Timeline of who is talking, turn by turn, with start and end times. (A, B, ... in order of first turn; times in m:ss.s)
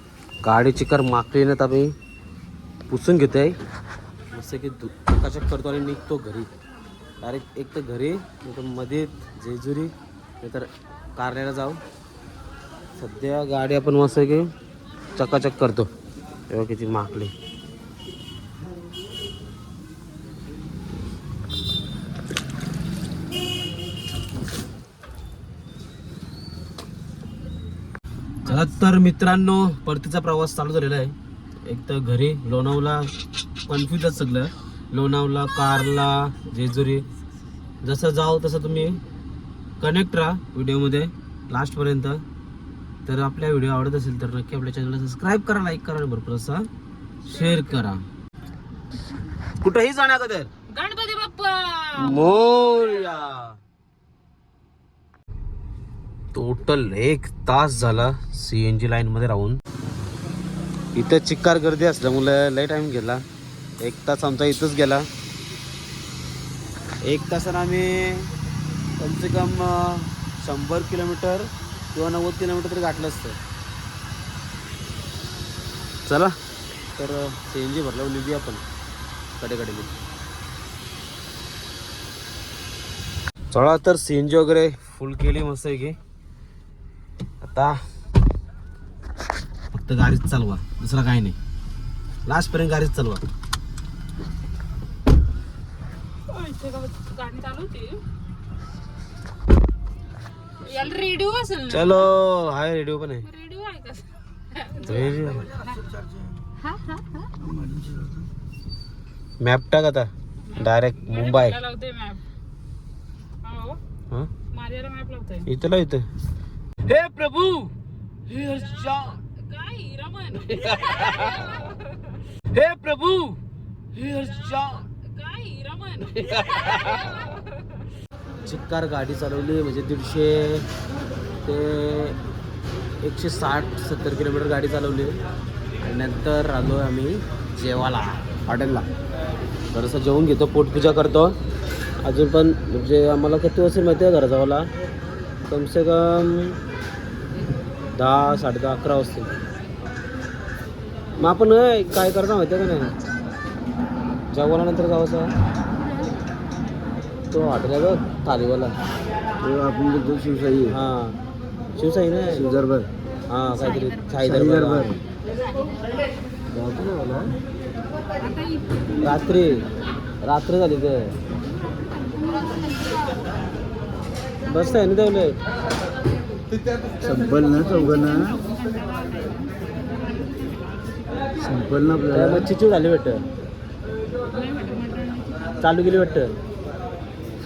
0:00.4-0:01.9 A
0:02.9-0:03.6 A
0:04.3-0:06.5 A
0:07.2-0:11.8 A
0:13.0-0:14.5 A
0:15.2-0:15.9 A
0:16.5-0:17.3 A
0:28.4-0:33.1 A
0:33.6-0:37.1 A
0:37.8-0:39.0 A
0:39.8-0:42.2 A
0:43.0-0:46.7 A
0:47.2-0:48.0 A
0:49.6-0:50.5 A
0:50.7-0:52.4 B
0:52.0-0:53.6 A
0:56.3-0:59.6 A
1:01.0-1:03.2 A
1:03.8-1:05.1 A
1:07.0-1:08.3 A
1:09.0-1:13.4 A
1:16.1-1:16.4 A
1:17.0-1:18.6 A
1:19.4-1:19.9 A
1:23.5-1:26.0 A
1:27.4-1:27.8 A
1:29.7-1:31.4 A
1:32.3-1:33.2 A
1:36.3-1:38.0 B
1:40.6-1:42.1 B
1:41.7-1:43.3 A
1:43.3-1:44.9 B
1:44.8-1:45.5 A
1:46.6-1:47.3 B
1:47.4-1:48.1 C
1:49.4-1:51.6 A
1:50.6-1:52.2 B
1:53.4-1:53.8 B
1:54.5-1:55.5 B
1:55.5-1:56.1 A
1:56.9-1:57.7 A
1:58.3-1:59.2 A
1:59.4-2:00.8 B
2:00.4-2:01.3 A
2:02.5-2:03.4 A
2:03.9-2:04.9 A
2:05.0-2:06.4 B
2:06.1-2:06.5 A
2:08.4-2:10.7 A
2:11.4-2:12.2 A
2:13.0-2:15.2 A
2:15.8-2:18.9 A
2:19.7-2:21.4 A
2:22.0-2:24.7 A
2:25.5-2:26.6 A
2:27.9-2:29.3 A
2:31.2-2:33.0 A
2:34.3-2:35.3 A
2:35.8-2:36.2 B
2:37.3-2:38.8 A
2:39.4-2:40.7 C
2:40.7-2:41.2 A
2:41.8-2:42.5 A
2:42.4-2:42.9 C
2:43.3-2:44.9 A
2:44.2-2:45.0 C
2:45.5-2:45.9 B
2:46.5-2:47.4 C
2:48.2-2:49.1 B
2:49.0-2:49.6 A
2:50.2-2:51.1 A
2:51.3-2:53.2 B
2:54.5-2:55.4 A
2:57.0-2:58.4 C
2:57.4-3:01.3 B
3:01.4-3:02.5 C
3:02.1-3:03.3 A
3:04.3-3:05.6 B
3:05.6-3:06.4 A